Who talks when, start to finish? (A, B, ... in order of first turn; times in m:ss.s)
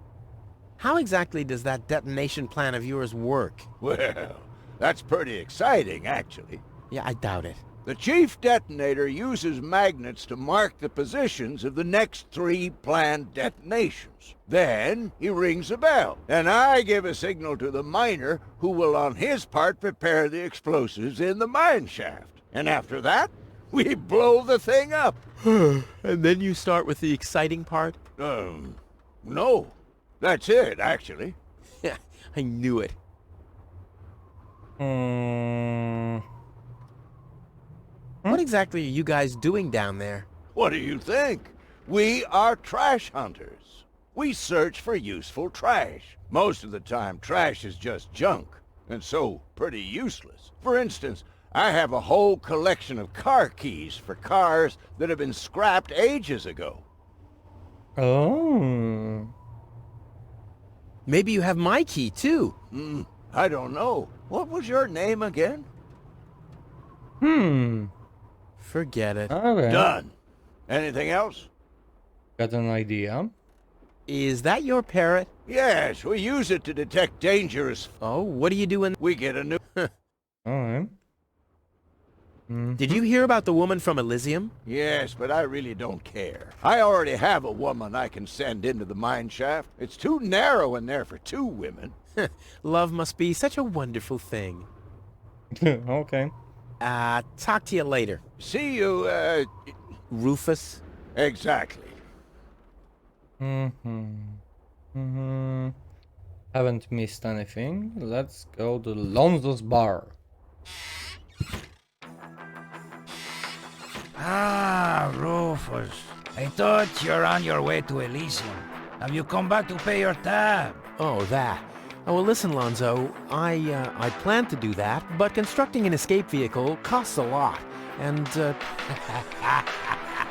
0:00.8-0:03.7 A
0:03.8-0:06.6 B
0:06.9-0:07.6 A
0:07.8-0:25.2 B
0:25.4-0:28.0 A
0:28.2-0:31.4 B
0:31.8-0:32.9 A
0:34.8-0:36.2 C
0:38.3-0:40.3 A
0:40.5-0:56.8 B
0:58.0-0:59.3 C
1:01.0-1:02.5 A
1:02.7-1:05.7 B
1:07.2-1:07.9 C
1:08.6-1:09.3 A
1:09.3-1:09.9 C
1:09.7-1:10.1 B
1:10.7-1:11.5 B
1:12.4-1:13.3 C
1:14.1-1:15.3 A
1:15.4-1:17.9 B
1:18.0-1:19.0 A
1:19.0-1:19.6 B
1:20.4-1:20.9 C
1:22.5-1:23.0 C
1:22.8-1:24.5 A
1:24.6-1:31.9 B
1:32.2-1:34.7 A
1:35.5-1:36.3 C
1:36.8-1:38.2 A
1:38.4-1:39.7 B
1:40.1-1:40.8 A
1:41.1-1:42.0 B
1:43.4-1:44.4 C
1:44.9-1:45.7 C
1:46.5-1:50.2 C
1:54.2-2:00.8 D
2:01.0-2:09.6 A